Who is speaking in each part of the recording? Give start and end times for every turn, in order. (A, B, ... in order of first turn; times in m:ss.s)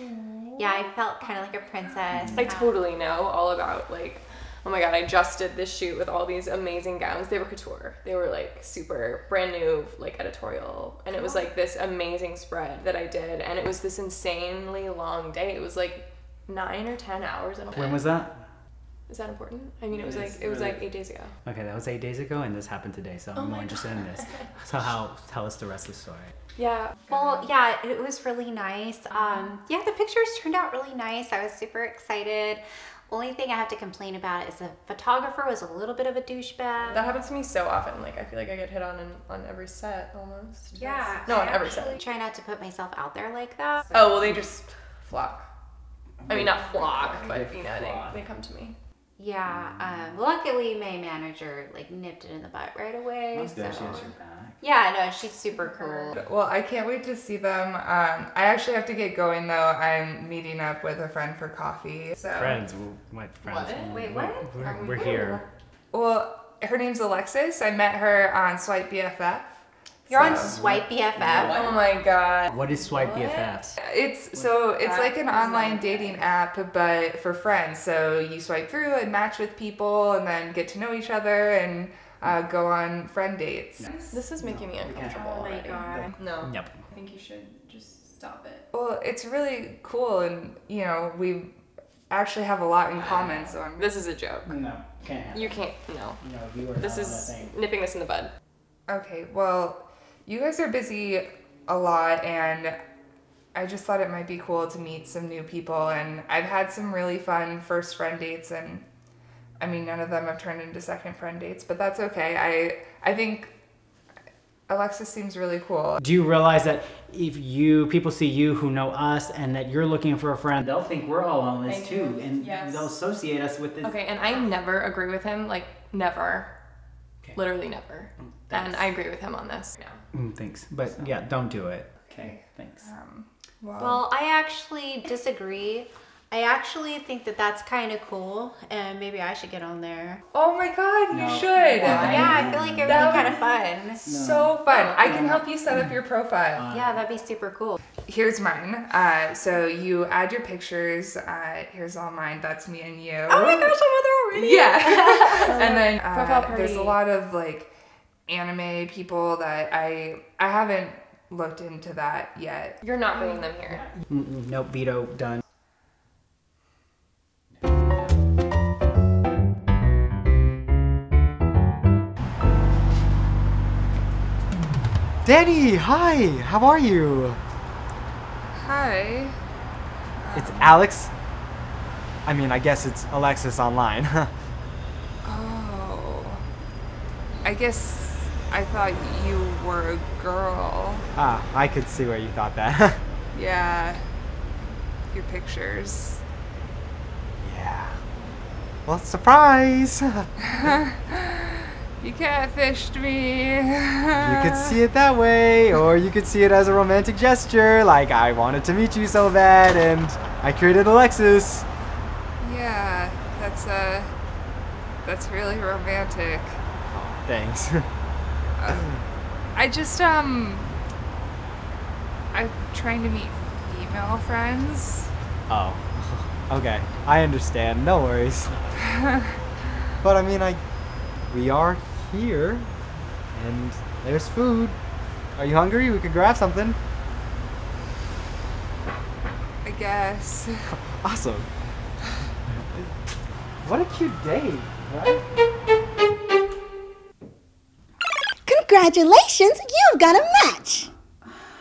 0:00.6-0:02.8 A
0:02.1-0:02.5 B
0:02.3-0:18.2 C
0:11.1-0:11.5 A
0:17.7-0:18.4 B
0:19.1-0:21.3 C
0:19.9-0:20.9 B
0:21.4-0:26.3 B
0:23.4-0:24.4 C
0:26.6-0:27.5 C
0:27.1-0:37.2 A
0:29.1-0:29.5 C
0:36.9-0:42.1 C
0:40.7-0:44.4 A
0:43.9-0:45.5 C
0:46.2-0:48.2 B
0:46.3-0:48.8 C
0:49.2-0:56.2 A
0:49.5-0:50.1 B
0:53.3-0:54.6 B
0:53.6-0:54.1 C
0:55.6-0:56.1 C
0:56.1-1:02.6 D
1:02.3-1:05.4 B
1:03.4-1:04.0 C
1:03.8-1:05.3 A
1:04.6-1:05.4 C
1:05.9-1:09.5 D
1:10.1-1:11.7 A
1:10.1-1:10.6 C
1:10.2-1:11.8 B
1:11.2-1:13.6 C
1:12.5-1:13.7 B
1:13.8-1:23.9 D
1:14.3-1:14.6 B
1:14.8-1:16.2 C
1:23.8-1:26.8 B
1:24.1-1:28.7 C
1:25.0-1:26.2 A
1:28.7-1:31.5 D
1:32.1-1:33.9 D
1:33.0-1:33.5 B
1:33.7-1:34.6 C
1:34.5-1:37.6 B
1:35.3-1:38.3 C
1:38.9-1:42.8 D
1:43.6-1:48.8 D
1:49.6-1:53.5 D
1:54.7-1:56.0 D
1:56.0-2:04.0 B
2:01.6-2:02.9 C
2:03.8-2:06.5 C
2:07.3-2:10.0 C
2:08.2-2:08.9 B
2:10.1-2:12.9 B
2:12.1-2:14.1 D
2:13.8-2:20.2 A
2:20.3-2:22.1 D
2:21.1-2:23.4 B
2:21.8-2:22.5 C
2:21.8-2:24.1 A
2:22.8-2:26.7 D
2:24.0-2:25.4 B
2:24.7-2:25.4 C
2:26.6-2:27.0 B
2:26.7-2:27.8 A
2:28.0-2:33.7 D
2:33.3-2:37.0 C
2:34.3-2:37.7 D
2:38.3-2:43.4 D
2:42.8-2:43.9 C
2:43.7-2:45.4 B
2:47.6-2:47.9 B
2:55.2-2:57.4 E
2:58.6-2:59.4 D
3:00.2-3:00.6 D
3:00.4-3:01.1 E
3:02.3-3:04.3 E
3:05.2-3:06.4 D
3:07.4-3:11.1 D
3:11.2-3:13.0 E
3:13.3-3:14.0 D
3:15.1-3:16.2 D
3:17.4-3:18.0 E
3:18.9-3:20.3 E
3:20.4-3:24.8 D
3:24.2-3:31.7 E
3:32.4-3:34.1 D
3:35.0-3:36.6 D
3:36.9-3:37.9 E
3:38.6-3:38.9 D
3:38.7-3:39.0 E
3:39.6-3:40.8 D
3:42.3-3:45.1 D
3:45.5-3:48.6 E
3:50.0-3:50.6 E
3:51.3-3:52.7 E
3:53.3-3:54.8 E
3:55.4-3:56.8 E
3:59.6-4:00.5 D
4:01.0-4:01.5 E
4:03.6-4:05.2 E
4:08.5-4:10.9 F